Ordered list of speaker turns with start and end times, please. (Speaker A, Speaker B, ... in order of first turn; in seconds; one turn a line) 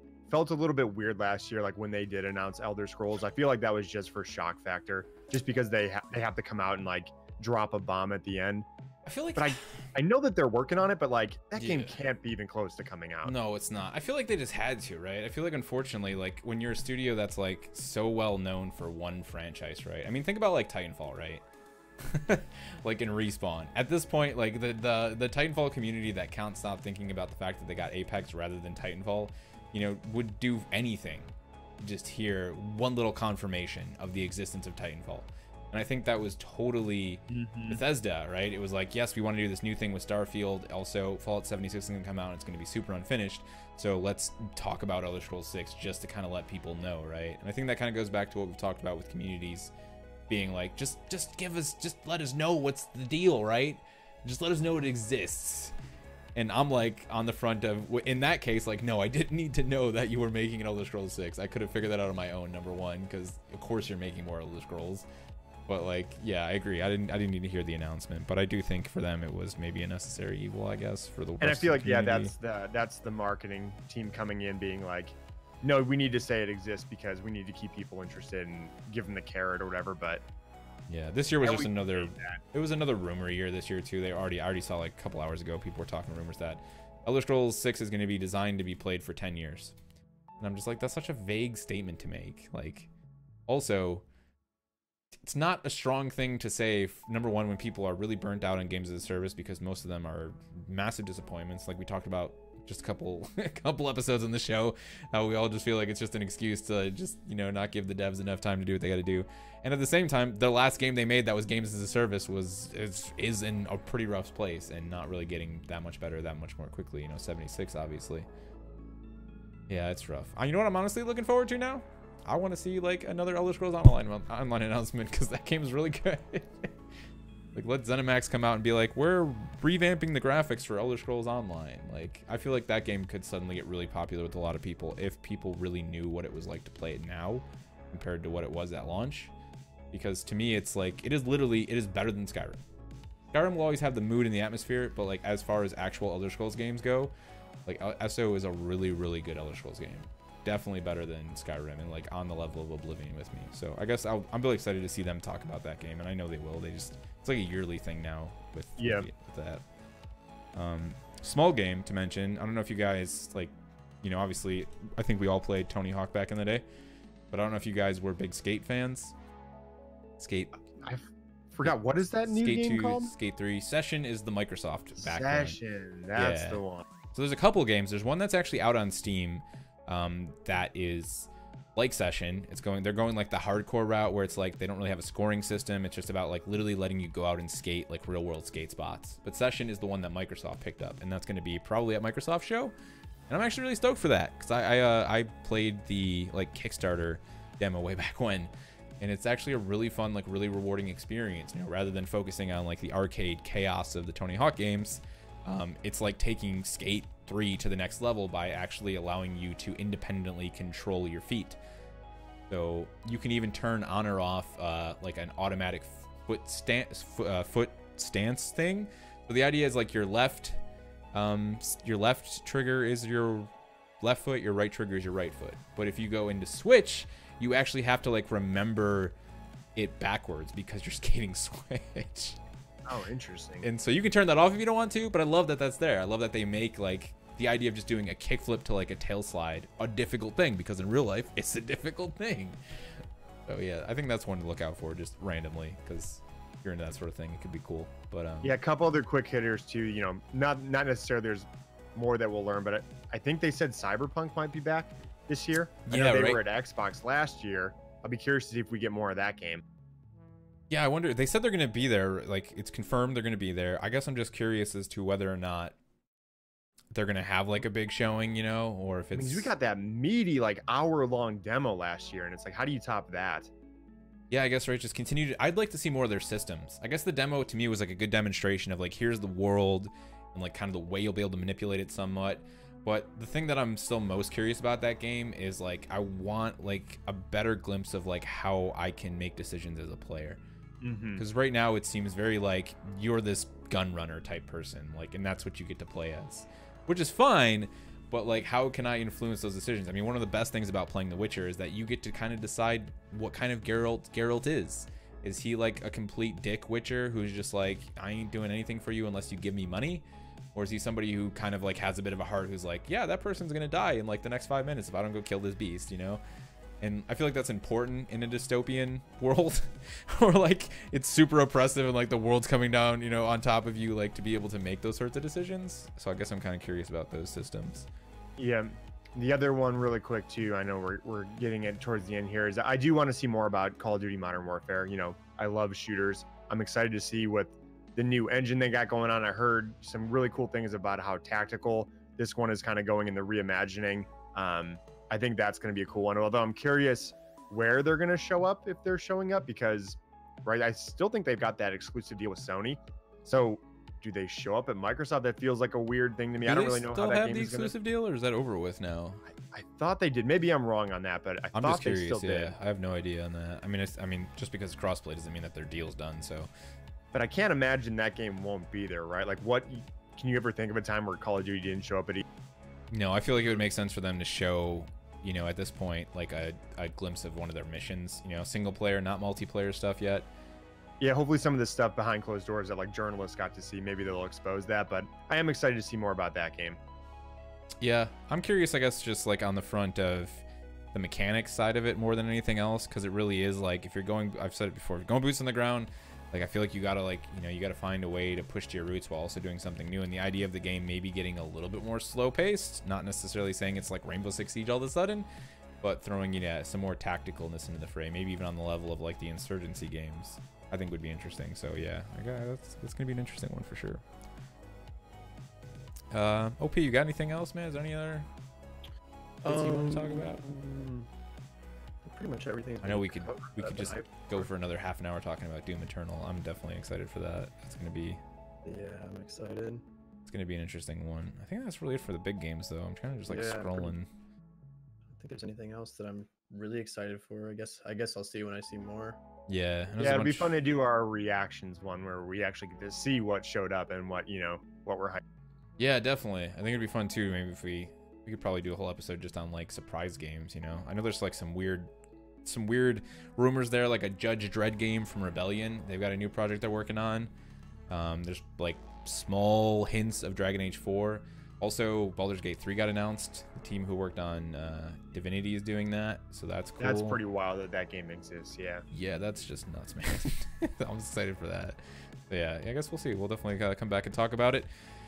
Speaker A: 0.3-8.7
Speaker B: 9.1-9.8
Speaker A: 9.4-13.3
Speaker B: 11.6-11.9
Speaker B: 13.2-21.4
Speaker B: 22.0-49.7
Speaker A: 37.3-37.8
Speaker B: 50.3-55.7
Speaker B: 56.4-65.1
Speaker B: 65.7-72.3
Speaker A: 71.4-80.2
Speaker B: 80.9-89.8
Speaker A: 81.4-82.4
Speaker B: 90.4-92.9
Speaker B: 93.5-94.0
Speaker B: 95.3-118.3
Speaker B: 119.7-126.7
Speaker B: 127.5-139.3
Speaker B: 139.9-142.6
Speaker B: 143.3-147.1
Speaker B: 147.7-159.6
Speaker A: 158.8-159.1
Speaker B: 160.6-166.7
Speaker B: 167.3-169.2
Speaker B: 170.2-170.6
Speaker A: 170.8-173.1
Speaker B: 171.6-175.6
Speaker A: 175.0-176.8
Speaker B: 176.2-176.6
Speaker B: 177.1-192.7
Speaker B: 193.3-211.6
Speaker B: 212.5-220.6
Speaker B: 221.1-223.5
Speaker B: 224.0-229.2
Speaker B: 229.8-232.4
Speaker A: 232.9-233.7
Speaker B: 233.6-243.0
Speaker B: 243.5-248.5
Speaker A: 248.4-259.6
Speaker B: 255.9-256.4
Speaker B: 260.7-265.8
Speaker B: 266.9-269.5
Speaker A: 269.1-273.5
Speaker B: 274.3-290.4
Speaker A: 290.8-291.2
Speaker B: 291.2-316.2
Speaker B: 316.8-327.9
Speaker A: 328.4-357.7
Speaker B: 356.4-359.2
Speaker A: 359.4-362.5
Speaker B: 361.5-366.5
Speaker A: 367.1-372.2
Speaker B: 372.9-380.3
Speaker A: 381.0-386.8
Speaker B: 387.8-405.3
Speaker B: 405.8-414.0
Speaker B: 416.1-418.3
Speaker B: 419.4-420.4
Speaker C: 419.4-421.1
Speaker C: 422.1-424.5
Speaker B: 422.8-428.2
Speaker C: 428.6-429.8
Speaker B: 430.3-434.1
Speaker C: 433.3-433.9
Speaker C: 435.1-439.2
Speaker B: 439.5-440.5
Speaker A: 440.0-445.2
Speaker B: 445.8-451.9
Speaker B: 452.4-457.3
Speaker B: 457.9-467.2
Speaker A: 466.8-468.9
Speaker B: 468.9-474.7